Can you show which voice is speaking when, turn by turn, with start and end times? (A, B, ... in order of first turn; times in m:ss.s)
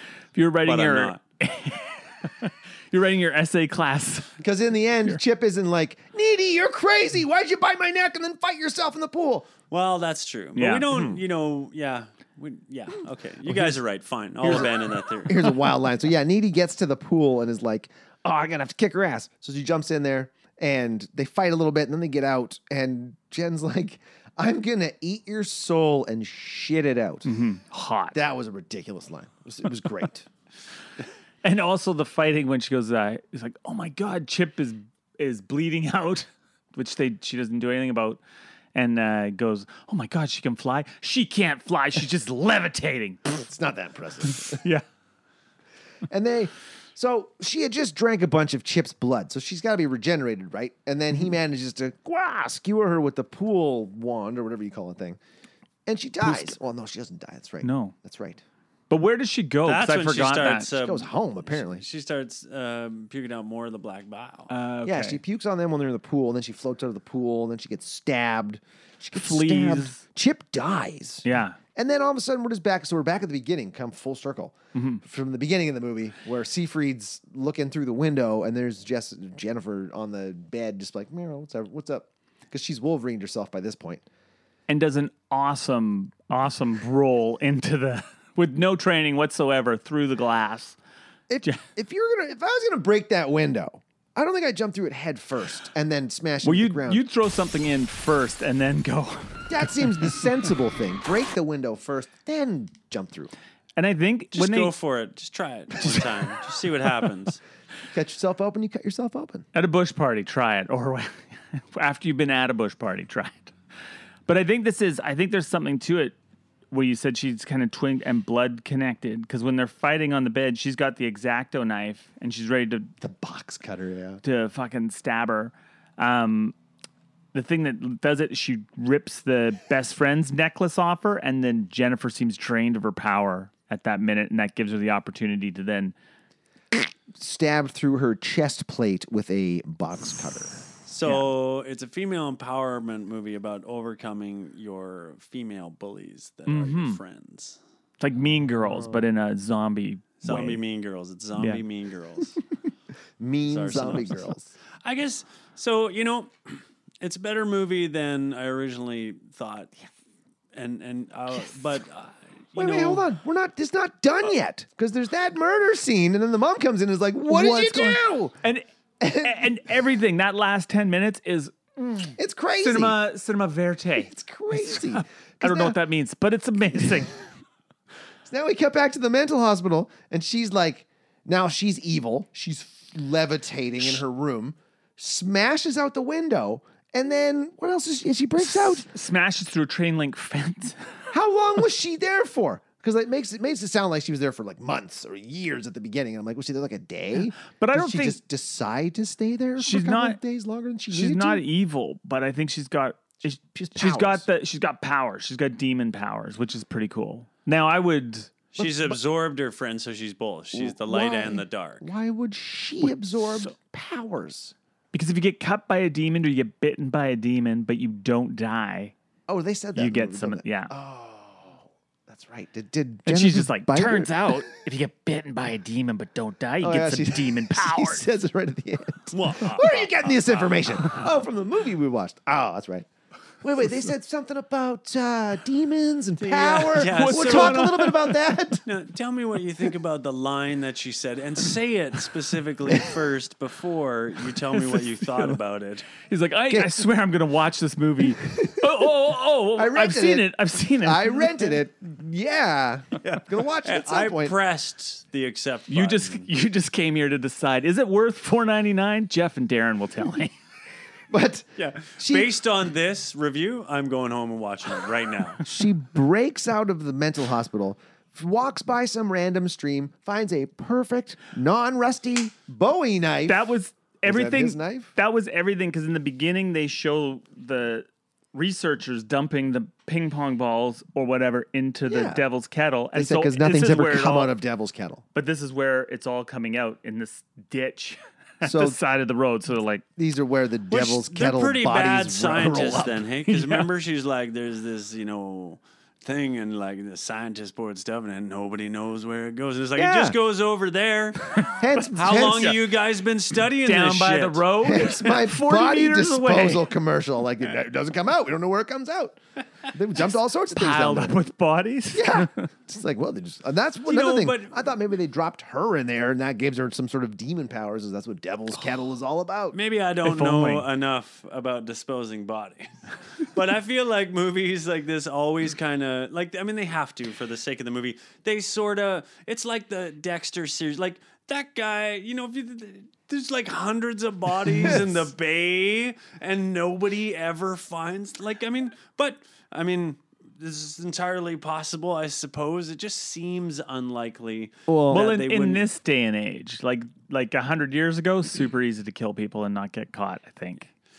0:00.3-0:04.3 A
0:00.6-0:01.2 B
0:04.4-0:09.5 C
0:09.7-0:15.5 B
0:10.6-0:10.8 A
0:10.9-0:11.2 C
0:13.5-0:13.8 C
0:14.4-0:27.3 C
0:27.2-0:28.2 A
0:28.1-0:30.3 C
0:31.4-0:38.2 A
0:38.7-0:43.3 A
0:43.2-0:44.6 C
0:44.2-0:44.8 A
0:46.1-0:55.2 C
0:55.8-0:58.4 C
0:56.2-0:56.5 A
0:57.6-0:57.9 A
0:58.9-1:00.7 A
0:59.6-1:04.5 B
1:00.8-1:01.8 C
1:04.5-1:05.2 A
1:04.8-1:24.0 C
1:09.1-1:10.0 A
1:11.2-1:11.6 A
1:14.7-1:15.0 A
1:24.7-1:30.8 A
1:31.3-1:37.0 C
1:36.4-1:40.2 A
1:39.5-1:43.3 C
1:43.8-1:44.7 A
1:44.3-1:47.4 B
1:45.8-1:46.2 A
1:47.9-1:49.4 C
1:49.5-1:53.5 A
1:54.3-1:56.1 A
1:56.7-2:02.9 A
2:03.0-2:04.2 C
2:04.2-2:06.5 A
2:07.3-2:15.9 A
2:16.7-2:20.7 C
2:20.9-2:27.6 B
2:26.5-2:27.0 A
2:28.0-2:30.6 A
2:28.7-2:29.0 C
2:30.2-2:32.4 B
2:31.4-2:31.6 A
2:33.2-2:34.5 C
2:33.4-2:34.3 B
2:34.8-2:39.7 B
2:40.5-2:43.0 B
2:42.6-2:48.4 C
2:47.3-2:48.6 A
2:49.0-2:49.6 C
2:49.2-2:52.0 A
2:52.0-2:53.0 C
2:52.6-2:57.1 A
2:54.0-2:55.8 C
2:58.2-3:08.8 C
3:08.4-3:10.9 A
3:11.1-3:21.4 C
3:17.4-3:18.2 A
3:19.6-3:20.2 A
3:20.9-3:28.3 A
3:23.6-3:24.2 C
3:28.5-3:31.9 B
3:28.6-3:28.9 C
3:30.5-3:34.5 C
3:32.8-3:33.5 A
3:34.9-3:38.9 A
3:39.3-3:44.4 C
3:39.7-3:40.7 A
3:43.0-3:48.0 A
3:46.6-3:52.8 C
3:49.1-3:51.1 B
3:53.4-3:58.6 C
3:56.3-3:58.0 B
3:56.4-3:58.1 A
3:58.6-4:05.9 B
4:04.5-4:05.4 A
4:06.0-4:11.5 A
4:06.5-4:06.8 C
4:08.2-4:08.9 C
4:09.6-4:14.4 C
4:13.0-4:16.3 B
4:15.7-4:20.3 A
4:21.1-4:21.5 C
4:21.6-4:25.4 B
4:22.0-4:22.3 C
4:25.4-4:33.4 C
4:33.3-4:44.4 A
4:34.0-4:34.9 C
4:41.9-4:42.2 C
4:42.9-4:45.0 C
4:45.1-4:49.8 A
4:48.4-4:48.8 C
4:50.0-4:53.0 C
4:50.7-5:04.4 B
4:53.3-4:53.7 A
4:59.8-5:00.2 C
5:01.6-5:02.5 C
5:03.6-5:06.7 A
5:04.6-5:11.2 C
5:10.5-5:12.5 A
5:11.9-5:19.6 C
5:13.8-5:14.5 B
5:19.5-5:45.6 B
5:20.0-5:20.7 A
5:44.7-5:50.7 A